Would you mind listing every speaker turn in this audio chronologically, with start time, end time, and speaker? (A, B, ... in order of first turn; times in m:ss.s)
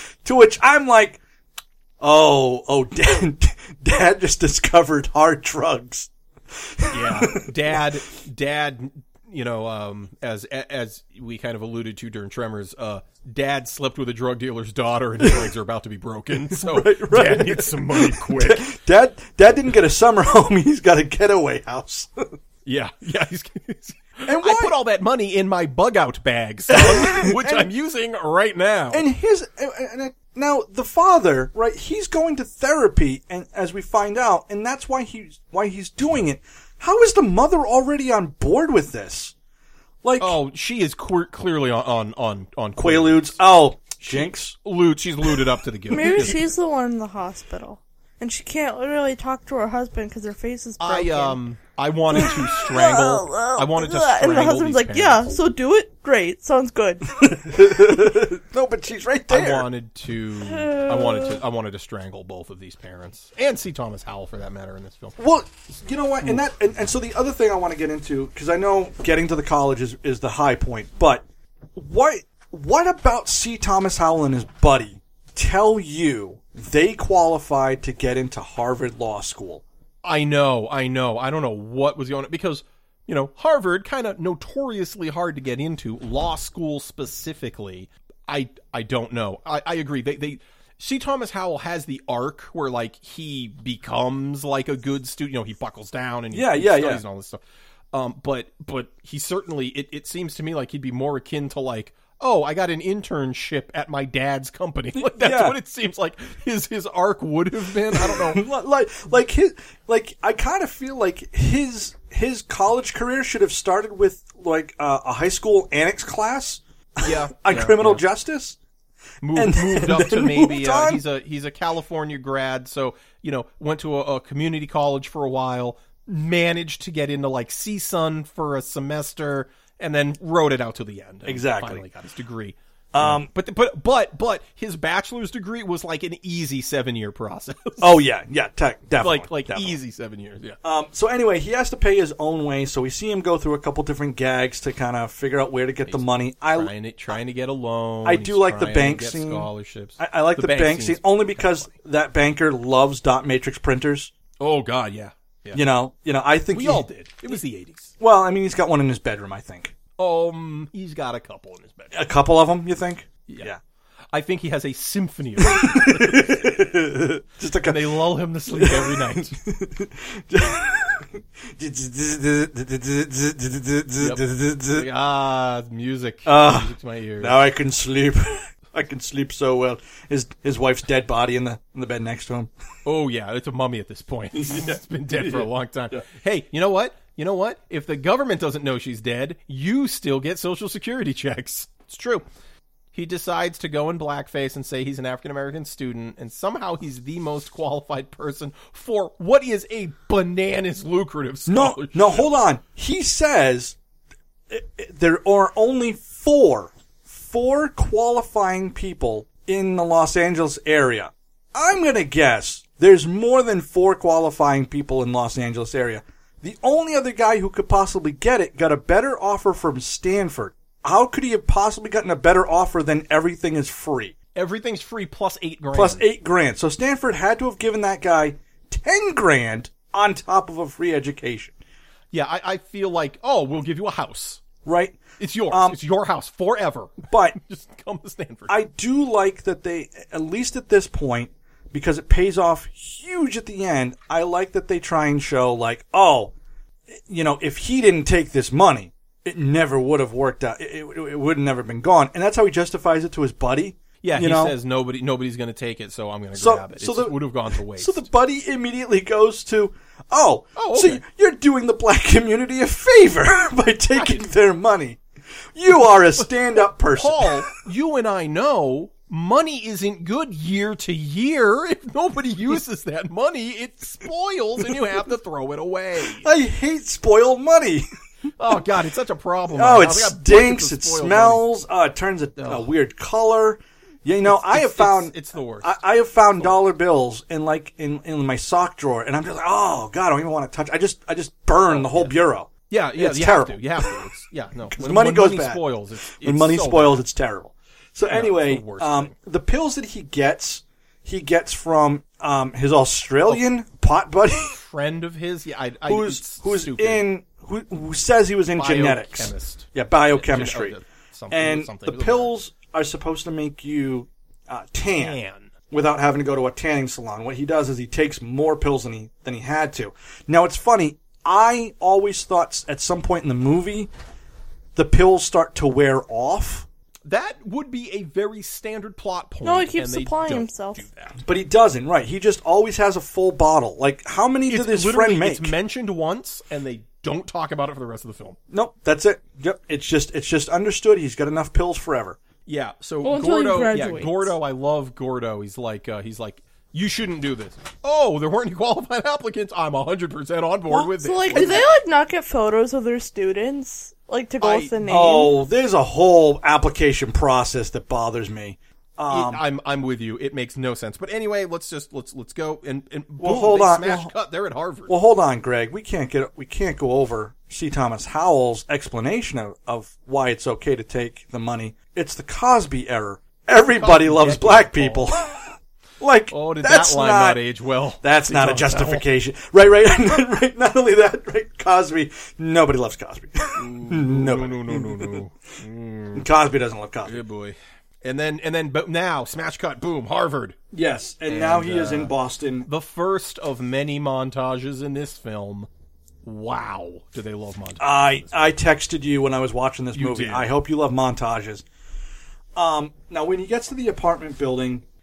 0:00.2-0:01.2 A
0:02.0-0:07.5 A
0:06.9-0:18.8 B
0:15.2-0:15.5 A
0:16.4-0:22.3 A
0:22.7-0:29.1 B
0:24.3-0:24.8 A
0:26.7-0:27.7 A
0:28.9-0:39.3 A
0:40.0-0:40.4 A
0:40.2-0:43.4 B
0:42.8-0:44.6 A
0:44.0-0:46.4 B
0:45.9-0:51.4 C
0:50.8-0:55.3 B
0:52.1-0:57.2 C
0:57.2-0:59.7 A
0:59.3-1:05.2 B
1:00.5-1:01.4 C
1:05.2-1:11.2 A
1:11.8-1:19.6 A
1:20.0-1:37.4 B
1:36.3-1:37.0 A
1:37.9-1:48.4 B
1:45.0-1:45.6 A
1:47.9-1:58.6 A
1:57.0-1:58.0 B
1:59.2-2:18.0 B
1:59.3-2:01.0 A
2:11.2-2:11.9 A
2:12.9-2:13.3 A
2:17.8-2:19.8 A
2:19.0-2:20.6 B
2:20.6-2:26.7 A
2:25.9-2:31.7 B
2:28.0-2:34.1 A
2:34.4-2:35.6 B
2:35.5-2:36.8 A
2:36.5-2:37.9 B
2:38.0-2:39.7 A
2:40.0-2:42.0 B
2:41.9-2:43.6 A
2:44.1-2:46.6 B
2:45.4-2:54.9 A
2:47.6-2:49.4 B
2:54.0-2:57.4 B
2:56.2-3:02.5 A
3:02.8-3:12.2 B
3:04.4-3:06.0 A
3:12.9-3:22.4 B
3:21.5-3:23.8 A
3:24.5-3:44.2 A
3:44.4-3:46.1 B
3:45.7-3:51.6 A
3:52.1-3:54.4 B
3:54.6-3:55.8 A
3:55.2-3:58.6 B
3:57.1-3:57.4 A
3:58.5-4:06.3 A
4:07.1-4:14.6 A
4:14.0-4:18.1 B
4:16.3-4:25.0 A
4:20.6-4:21.0 B
4:24.0-4:24.3 B
4:25.6-4:27.4 A
4:26.9-4:36.3 B
4:36.1-4:37.9 A
4:38.4-4:41.4 B
4:39.5-4:54.1 A
4:42.4-4:42.7 B
4:44.2-4:45.8 B
4:46.4-4:46.6 B
4:51.7-4:52.2 B
4:52.7-4:57.1 B
4:54.7-5:04.6 A
4:58.1-4:59.1 B
5:04.5-5:07.0 B
5:05.8-5:10.8 A
5:08.6-5:12.3 B
5:11.3-5:15.2 A
5:14.9-5:15.5 B
5:15.7-5:23.9 A
5:24.8-5:26.7 A
5:27.1-5:31.1 B
5:29.4-5:30.8 C
5:31.2-5:35.6 A
5:34.5-5:38.4 B
5:38.5-5:42.2 A
5:42.5-5:51.7 B
5:43.0-5:44.3 C
5:50.7-5:55.4 C
5:51.3-5:51.6 A
5:54.4-5:54.8 B
5:54.8-5:59.4 A
5:59.1-6:04.9 B
6:03.2-6:04.1 A
6:04.9-6:17.4 A
6:13.7-6:15.1 B
6:16.3-6:19.0 B
6:18.0-6:25.2 A
6:23.6-6:26.3 B
6:26.2-6:27.2 A
6:27.0-6:30.6 B
6:30.7-6:32.7 A
6:31.3-6:32.1 B
6:32.6-6:35.7 B
6:36.2-6:38.4 B
6:37.8-6:41.6 A
6:39.9-6:40.5 B
6:42.6-6:44.8 A